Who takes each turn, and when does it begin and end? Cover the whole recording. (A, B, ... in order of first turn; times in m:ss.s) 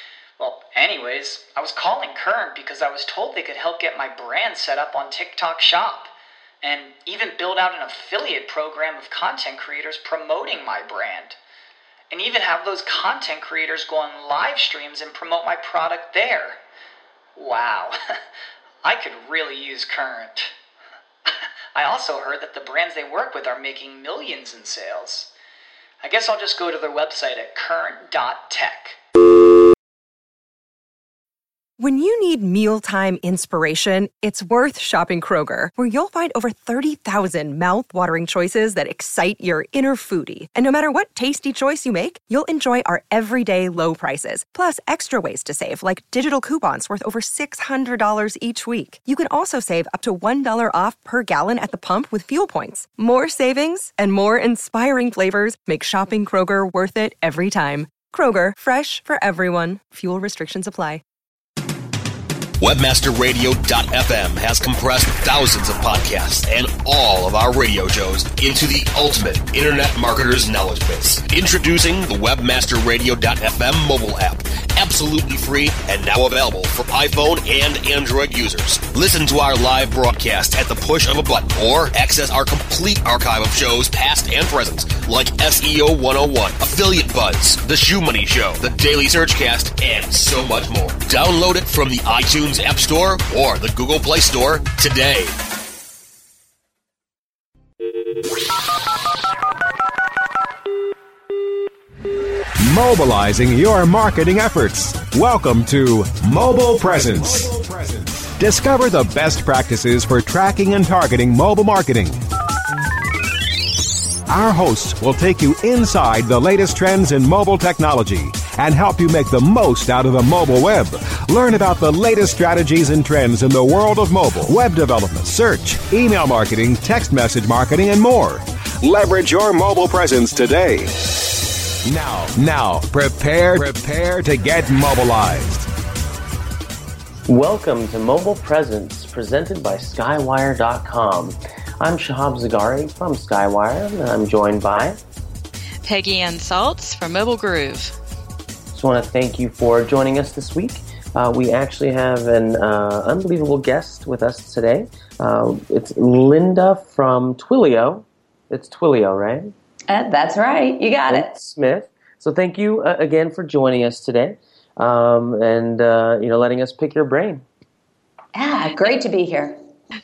0:00.4-0:11.4 A
0:12.1-0:16.6 A
0:17.4-0:18.0 A
0:18.8-0:20.5 A
0:21.8-0:25.3 A
0:26.0-0:29.0 A
0:31.8-1:01.0 B
1:02.6-1:35.3 C
1:42.6-1:52.2 D
1:54.3-2:10.9 D
2:11.8-2:15.7 D
2:17.3-2:25.0 E
2:25.8-2:27.9 F
2:28.7-2:39.5 E
2:39.9-2:41.3 G
2:41.1-2:47.4 E
2:48.4-2:49.6 G